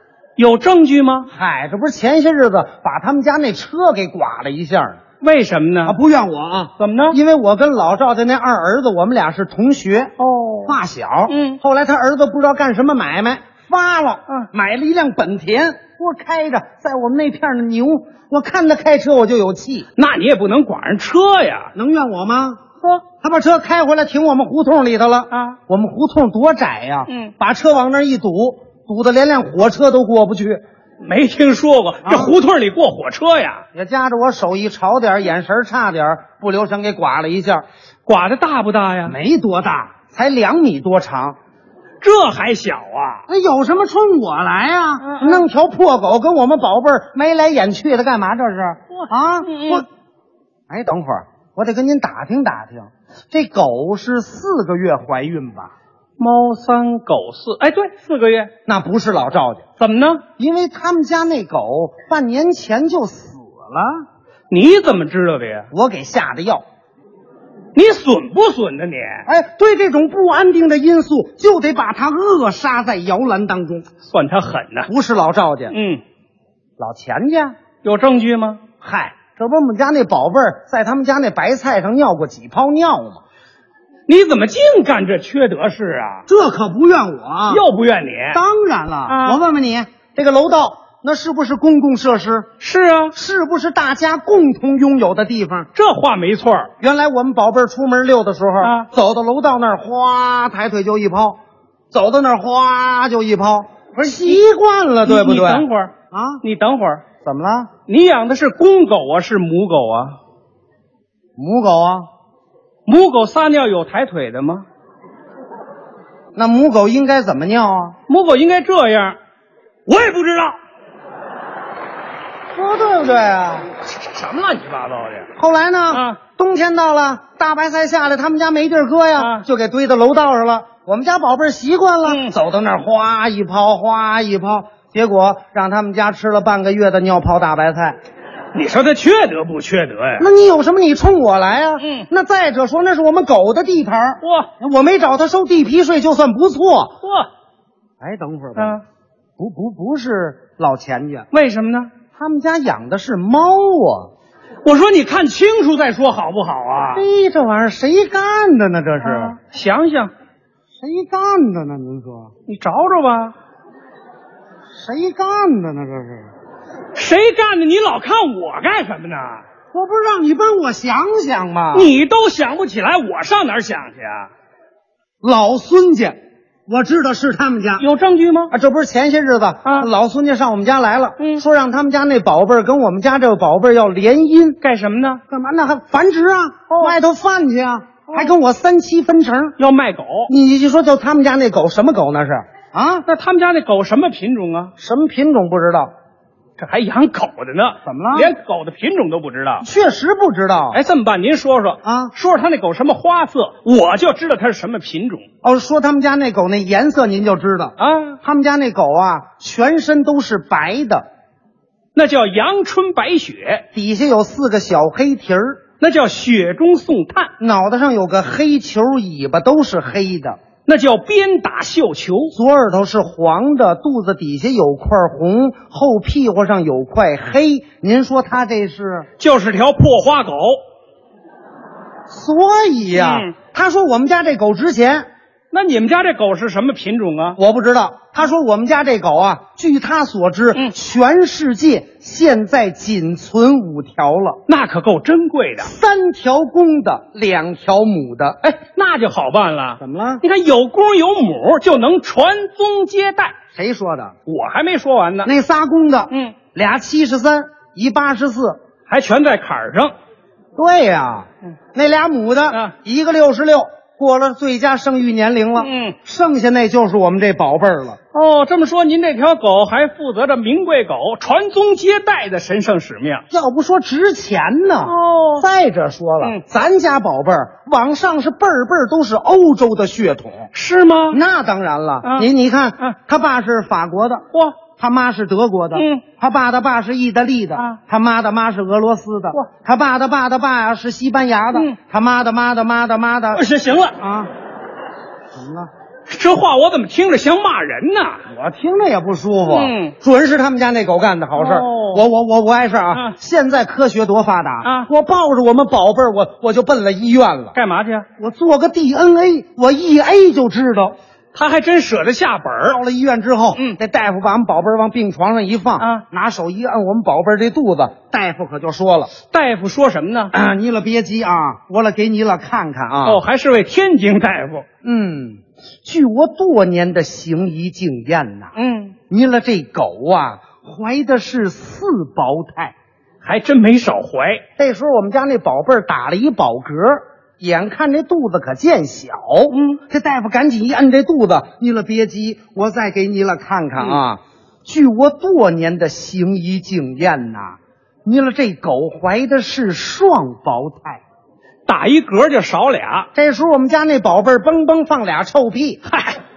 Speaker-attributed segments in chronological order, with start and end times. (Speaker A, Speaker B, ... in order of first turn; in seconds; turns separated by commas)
Speaker A: 0.4-1.3, Speaker B: 1.3-5.0, Speaker A: 5.2-6.0, Speaker B: 5.8-19.9, Speaker A: 6.8-7.2, Speaker A: 10.2-10.7, Speaker A: 11.3-11.6, Speaker A: 20.0-21.7, Speaker B: 21.7-22.6, Speaker B: 23.2-30.6, Speaker A: 25.3-25.6, Speaker A: 31.0-33.6, Speaker B: 32.0-32.3, Speaker B: 33.7-37.6, Speaker A: 38.0-39.1, Speaker B: 39.0-41.4, Speaker A: 42.0-43.2, Speaker B: 43.3-49.9, Speaker A: 45.0-45.5, Speaker A: 48.9-49.8, Speaker B: 50.7-55.7, Speaker A: 56.2-58.5, Speaker B: 58.6-59.6, Speaker A: 59.8-60.2, Speaker B: 60.4-64.0, Speaker A: 64.5-65.7, Speaker B: 65.7-66.6, Speaker A: 67.7-69.2, Speaker B: 69.2-73.8, Speaker A: 74.1-74.9, Speaker B: 74.9-75.8, Speaker A: 75.7-76.0, Speaker B: 76.8-77.5, Speaker A: 77.8-78.6, Speaker B: 78.8-83.2, Speaker A: 84.1-86.2, Speaker B: 86.3-87.6, Speaker A: 87.5-88.4, Speaker B: 88.3-92.5, Speaker A: 89.1-89.4, Speaker A: 92.6-93.1, Speaker B: 93.1-95.7, Speaker A: 95.7-96.7, Speaker B: 96.8-101.4, Speaker A: 98.6-98.9, Speaker B: 101.9-106.4, Speaker A: 105.0-107.0, Speaker B: 107.2-107.7, Speaker A: 107.9-110.2, Speaker B: 111.4-112.1, Speaker A: 112.8-114.6, Speaker B: 116.3-118.0, Speaker A: 118.1-119.2, Speaker A: 119.9-120.6, Speaker B: 122.5-123.7, Speaker A: 123.8-125.3, Speaker B: 125.3-138.0, Speaker A: 125.9-126.2, Speaker A: 129.2-129.4, Speaker A: 132.1-132.3, Speaker A: 138.5-140.2, Speaker B: 140.2-146.9, Speaker A: 141.8-142.0, Speaker A: 144.2-144.5, Speaker A: 147.0-147.3, Speaker B: 148.0-148.8, Speaker A: 148.6-148.8, Speaker B: 149.4-151.3, Speaker A: 151.3-151.9, Speaker B: 152.1-154.1, Speaker A: 154.6-157.0, Speaker B: 156.9-159.3, Speaker A: 159.0-160.1, Speaker B: 160.8-162.3, Speaker A: 162.5-163.3, Speaker B: 164.8-166.3, Speaker A: 166.9-169.4, Speaker B: 169.7-171.9, Speaker A: 171.7-174.3, Speaker B: 175.2-176.2, Speaker B: 176.7-177.8, Speaker A: 177.8-178.5, Speaker B: 178.5-184.6, Speaker A: 184.6-185.2, Speaker B: 185.3-189.6, Speaker A: 189.6-190.3, Speaker B: 190.3-193.1, Speaker A: 193.1-194.7, Speaker B: 194.8-195.9, Speaker A: 196.6-199.7, Speaker B: 197.8-198.3, Speaker B: 199.6-200.8, Speaker A: 200.7-205.2, Speaker B: 201.8-202.1, Speaker B: 205.4-211.1, Speaker A: 207.8-208.2, Speaker A: 211.9-213.6, Speaker B: 213.7-215.6, Speaker A: 215.8-217.3, Speaker B: 217.4-220.4, Speaker A: 220.7-222.3, Speaker B: 222.3-229.1, Speaker A: 229.2-230.6, Speaker B: 232.1-235.1, Speaker A: 232.9-233.3, Speaker A: 235.5-237.4, Speaker B: 237.3-244.4, Speaker A: 244.5-245.7, Speaker B: 245.6-248.4, Speaker A: 248.4-253.3, Speaker B: 249.8-250.2, Speaker B: 253.5-254.1, Speaker A: 254.2-255.3, Speaker B: 255.2-258.6, Speaker A: 256.1-256.3, Speaker A: 258.9-259.9, Speaker B: 260.6-268.0, Speaker A: 265.6-265.9, Speaker A: 268.1-273.2, Speaker B: 273.3-280.5, Speaker A: 274.8-275.4, Speaker A: 280.5-281.2, Speaker B: 281.1-293.4, Speaker A: 285.7-286.0, Speaker A: 293.3-294.0, Speaker B: 294.0-294.3, Speaker B: 295.3-295.7, Speaker A: 296.1-298.2, Speaker B: 298.3-307.5, Speaker A: 299.5-299.9, Speaker A: 301.4-302.0, Speaker A: 307.5-308.0, Speaker B: 308.2-310.9, Speaker A: 311.3-312.8, Speaker B: 312.7-319.1, Speaker A: 319.3-320.3, Speaker B: 320.3-323.2, Speaker A: 323.0-324.6, Speaker B: 324.8-328.5, Speaker A: 328.6-328.9, Speaker B: 329.1-332.7, Speaker A: 333.2-334.4, Speaker B: 334.6-351.0, Speaker A: 351.6-353.1, Speaker B: 353.1-355.8, Speaker A: 355.9-356.2